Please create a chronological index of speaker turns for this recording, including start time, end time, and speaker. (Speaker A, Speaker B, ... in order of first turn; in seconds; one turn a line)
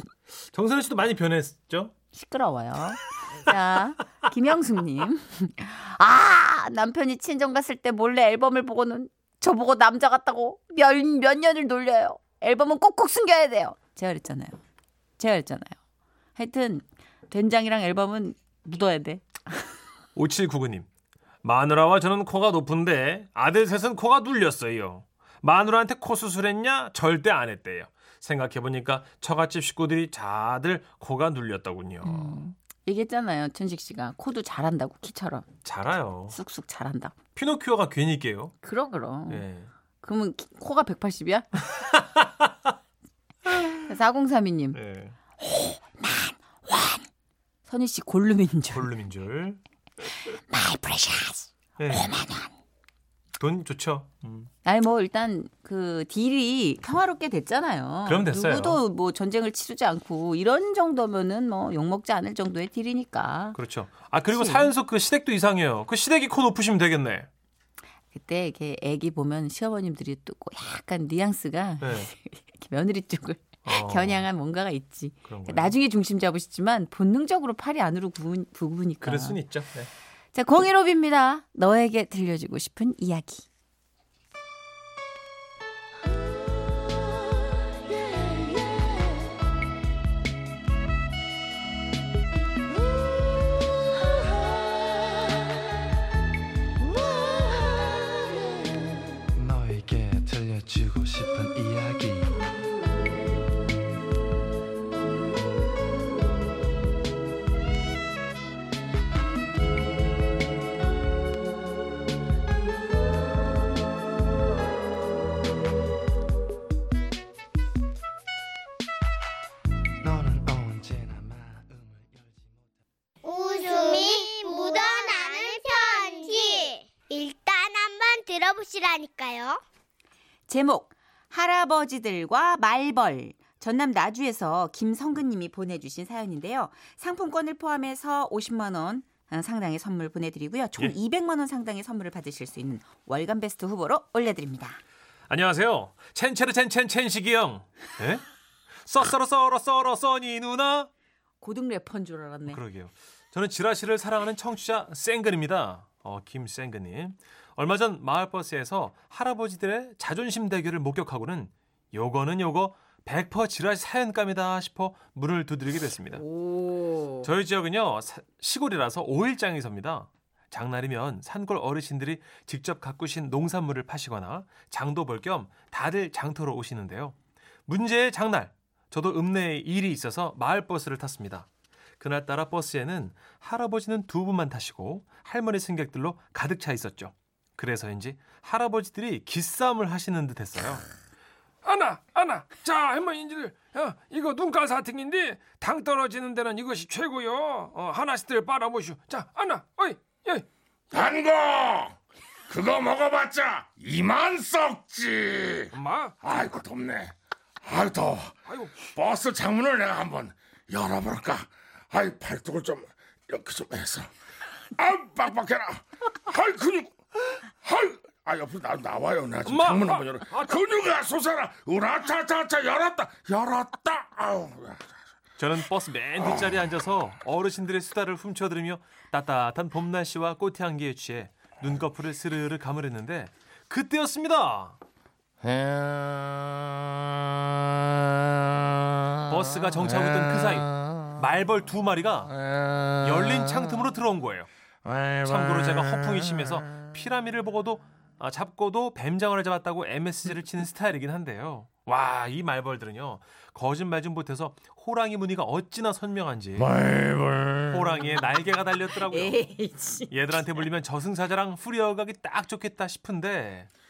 Speaker A: 0.3-1.9
Speaker B: 2.1-14.6
Speaker B: 15.2-15.8
Speaker B: 16.4-19.2
Speaker A: 20.1-20.9
Speaker A: 21.4-32.4
Speaker B: 32.0-35.5
Speaker A: 35.6-36.4
Speaker B: 36.3-37.1
Speaker A: 37.4-38.5
Speaker B: 38.6-39.4
Speaker A: 39.3-39.7
Speaker B: 40.0-41.5
Speaker A: 41.7-42.5
Speaker B: 43.9-44.8
Speaker A: 44.7-45.1
Speaker C: 45.4-47.0
Speaker B: 47.7-48.9
Speaker A: 48.7-49.6
Speaker C: 50.5-52.5
Speaker A: 51.8-52.1
Speaker A: 53.4-54.5
Speaker B: 54.6-63.6
Speaker A: 58.0-58.8
Speaker A: 63.5-67.3
Speaker B: 64.3-64.7
Speaker B: 68.1-79.4
Speaker A: 71.8-72.1
Speaker A: 73.6-74.2
Speaker A: 75.3-75.8
Speaker A: 79.0-79.9
Speaker B: 80.3-83.5
Speaker D: 99.3-102.4
Speaker D: 120.0-122.7
Speaker E: 123.2-129.6
Speaker C: 130.5-144.8
Speaker A: 145.3-148.2
Speaker A: 148.8-150.9
Speaker B: 151.4-152.6
Speaker A: 152.5-166.2
Speaker B: 166.1-167.3
Speaker A: 167.2-177.2
Speaker A: 177.7-181.5
Speaker A: 182.0-190.8
Speaker F: 191.6-200.5
Speaker G: 200.9-202.0
Speaker G: 202.5-214.1
Speaker F: 205.7-206.1
Speaker F: 208.5-208.8
Speaker G: 214.8-216.9
Speaker G: 217.6-224.9
Speaker F: 219.4-220.6
Speaker A: 225.4-234.8
Speaker G: 235.4-236.7
Speaker A: 239.3-242.3
Speaker G: 239.9-241.0
Speaker G: 242.3-243.6
Speaker A: 243.0-244.5
Speaker G: 244.8-246.4
Speaker A: 245.2-256.7
Speaker G: 256.6-258.0
Speaker A: 257.7-259.4
Speaker B: 259.1-259.4
Speaker C: 259.7-260.0
Speaker A: 260.1-263.7